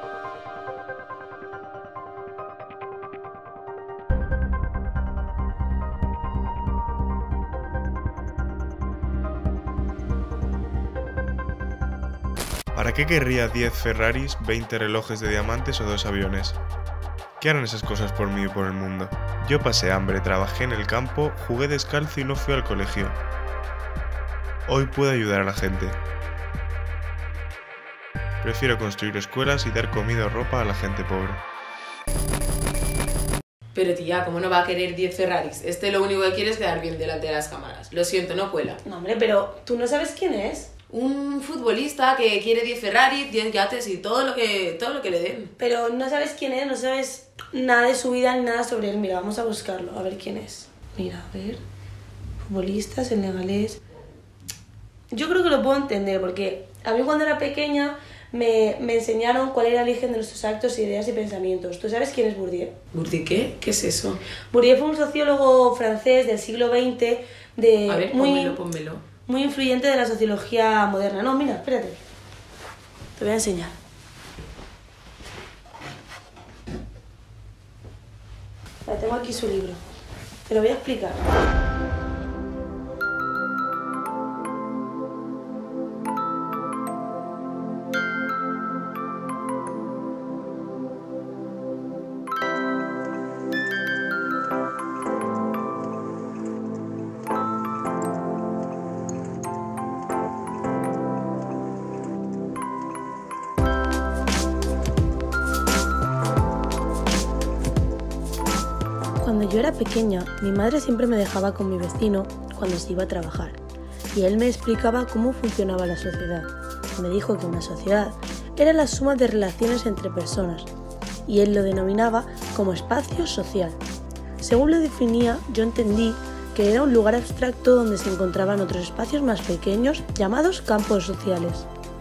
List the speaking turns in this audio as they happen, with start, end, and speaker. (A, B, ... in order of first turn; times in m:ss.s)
0:12.7-0:16.6 A
0:17.4-0:23.2 A
0:24.7-0:26.0 A
0:28.4-0:31.4 A
0:33.7-0:38.8 B
0:38.8-0:40.7 C
0:40.9-0:45.5 B
0:45.6-0:51.6 C
0:52.4-0:53.8 C
0:55.1-1:02.7 C
1:02.9-1:04.2 B
1:04.5-1:08.6 C
1:07.9-1:09.0 B
1:09.2-1:12.0 C
1:13.2-1:13.7 C
1:18.8-1:19.8 C
1:20.4-1:21.2 C
1:49.2-1:53.6 C
1:54.1-2:00.7 C
2:01.2-2:03.8 C
2:04.4-2:11.7 C